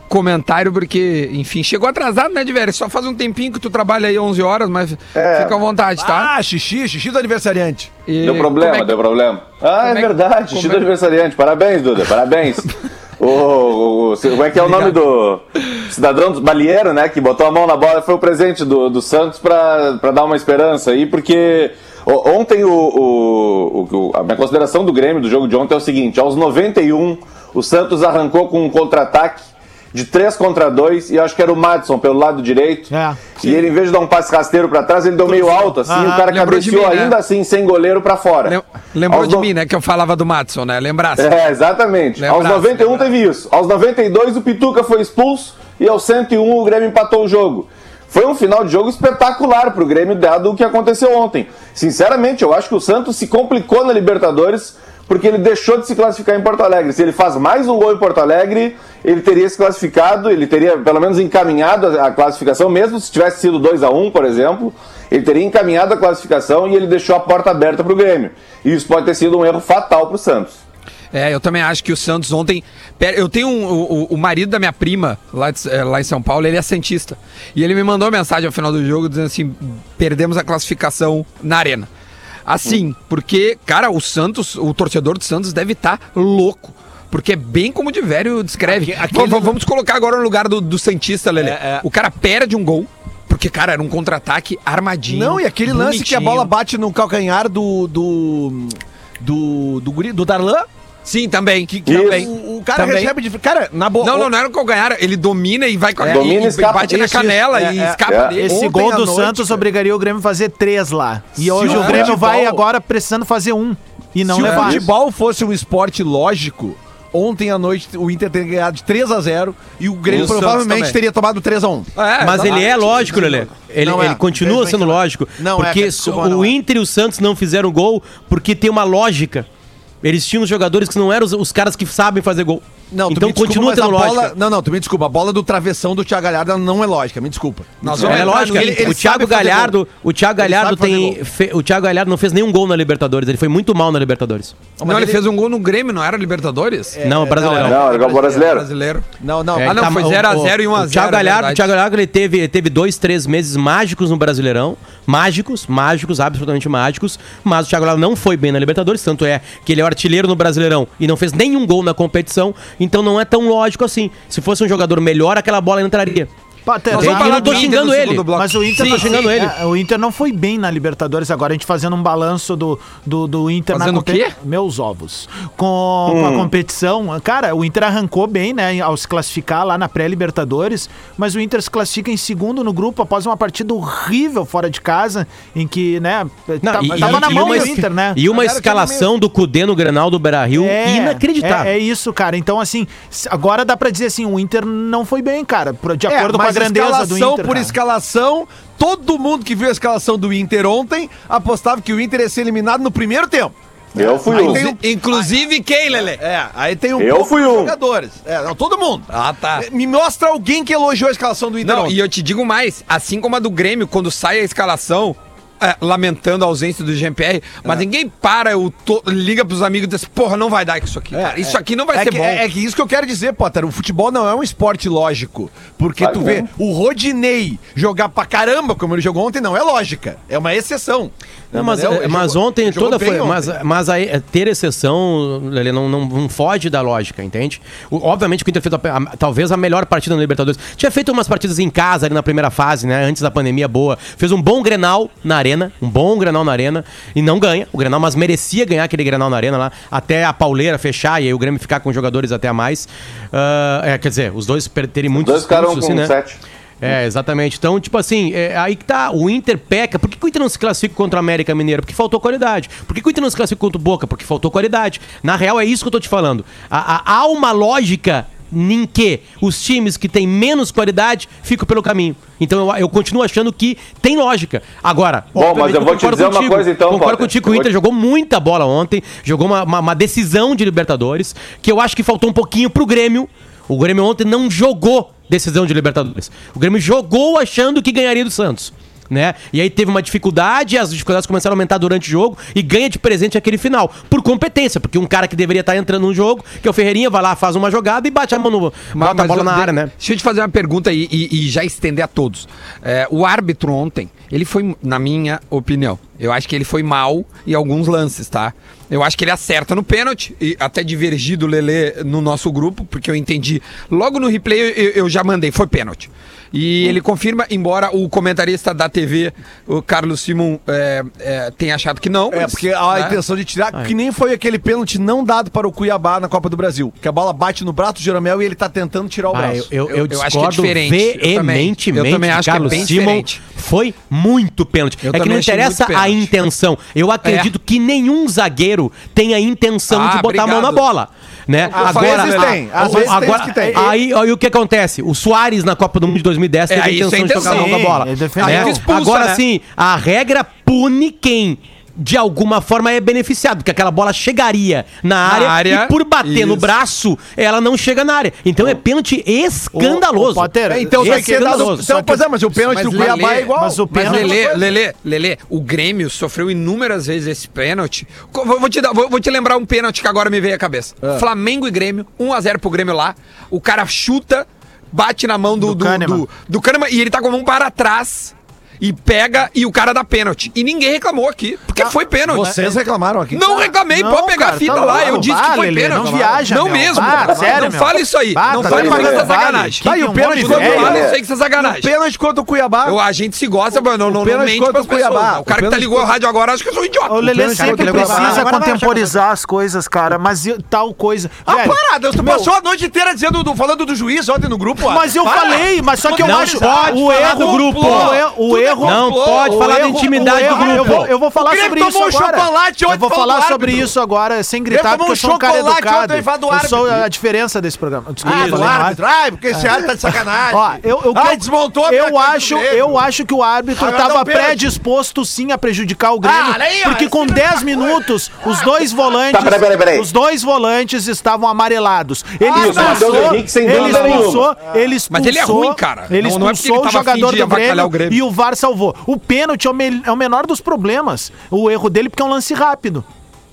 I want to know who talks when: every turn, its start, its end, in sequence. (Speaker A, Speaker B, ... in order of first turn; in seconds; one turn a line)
Speaker A: 0.1-6.3
Speaker B: 5.2-5.6
Speaker C: 6.0-7.9
Speaker A: 8.1-9.0
Speaker B: 8.2-38.6
Speaker A: 9.8-10.9
Speaker A: 14.5-15.0
Speaker D: 32.9-33.2
Speaker A: 35.2-37.2
Speaker D: 35.9-36.3
Speaker A: 38.5-41.3
Speaker B: 39.1-39.5
Speaker B: 41.2-70.6
Speaker A: 42.2-43.1
Speaker A: 71.1-81.9
Speaker A: 82.5-96.5
Speaker C: 88.7-89.6
Speaker C: 91.4-91.9
Speaker C: 95.1-100.7
Speaker A: 101.0-103.2
Speaker C: 101.7-104.3
Speaker B: 101.9-102.3
Speaker A: 104.0-108.6
Speaker B: 106.0-107.0
Speaker C: 106.9-109.6
Speaker B: 108.1-108.4
Speaker D: 108.4-114.9
Speaker C: 111.5-112.6
Speaker A: 111.6-112.1
Speaker B: 111.7-112.1
Speaker C: 114.3-126.5
Speaker A: 114.4-114.8
Speaker A: 120.1-121.0
Speaker B: 120.1-120.4
Speaker A: 122.0-122.8
Speaker E: 122.2-129.5
Speaker E: 130.0-134.3
Speaker C: 132.9-139.8
Speaker A: 137.8-139.0
Speaker E: 138.0-144.6
Speaker C: 140.4-141.2
Speaker C: 144.8-145.2
Speaker A: 144.8-147.0
Speaker C: 146.9-148.3
Speaker E: 147.0-147.8
Speaker B: 147.6-148.7
Speaker A: 147.6-149.1
Speaker C: 149.2-150.0
Speaker E: 149.5-166.3
Speaker A: 149.6-151.7
Speaker D: 166.7-167.8
Speaker A: 166.9-169.3
Speaker E: 166.9-169.6
Speaker D: 168.3-188.2
Speaker A: 173.7-174.3
Speaker B: 176.1-176.5
Speaker E: 186.6-191.7
Speaker C: 186.9-189.1
Speaker D: 190.5-197.8
Speaker C: 196.1-205.3
Speaker B: 203.9-204.7
Speaker A: 204.3-206.2
Speaker C: 206.2-212.0
Speaker B: 207.0-207.8
Speaker A: 209.1-209.7
Speaker A: 211.6-222.4
Speaker C: 221.1-233.5
Speaker B: 226.0-226.5
Speaker E: 231.5-256.1
Speaker B: 255.1-256.4
Speaker E: 256.8-299.9
Speaker B: 275.4-277.7
Speaker A: 298.9-323.2
Speaker C: 322.3-329.7
Speaker E: 329.3-361.9
Speaker A: 329.9-333.4
Speaker A: 335.0-336.3
Speaker A: 337.2-337.5
Speaker A: 339.9-340.9
Speaker A: 341.6-342.7
Speaker C: 341.7-343.9
Speaker D: 342.8-343.9
Speaker A: 346.7-349.4
Speaker D: 347.4-348.8
Speaker A: 355.2-356.7
Speaker D: 359.7-362.3
Speaker C: 360.7-364.7
Speaker A: 362.6-382.5
Speaker D: 362.9-364.4
Speaker D: 375.6-376.2
Speaker D: 381.8-382.8
Speaker C: 382.3-383.7
Speaker A: 383.3-389.9
Speaker D: 383.5-391.0
Speaker C: 384.7-385.3
Speaker C: 385.9-387.8
Speaker B: 388.5-389.3
Speaker C: 388.6-389.2
Speaker C: 389.8-393.0
Speaker A: 390.4-391.9
Speaker B: 390.5-391.2
Speaker A: 392.9-397.3
Speaker C: 394.0-396.1
Speaker D: 397.1-402.5
Speaker C: 397.2-399.0
Speaker E: 397.6-398.8
Speaker C: 401.5-413.9
Speaker D: 404.9-419.0
Speaker E: 406.2-408.2
Speaker E: 408.8-411.1
Speaker C: 414.7-417.1
Speaker C: 418.2-423.0
Speaker E: 418.2-418.7
Speaker D: 419.5-443.1
Speaker C: 423.8-424.7
Speaker C: 426.2-428.0
Speaker B: 429.3-430.1
Speaker B: 432.5-434.5
Speaker C: 432.5-434.2
Speaker A: 435.1-438.2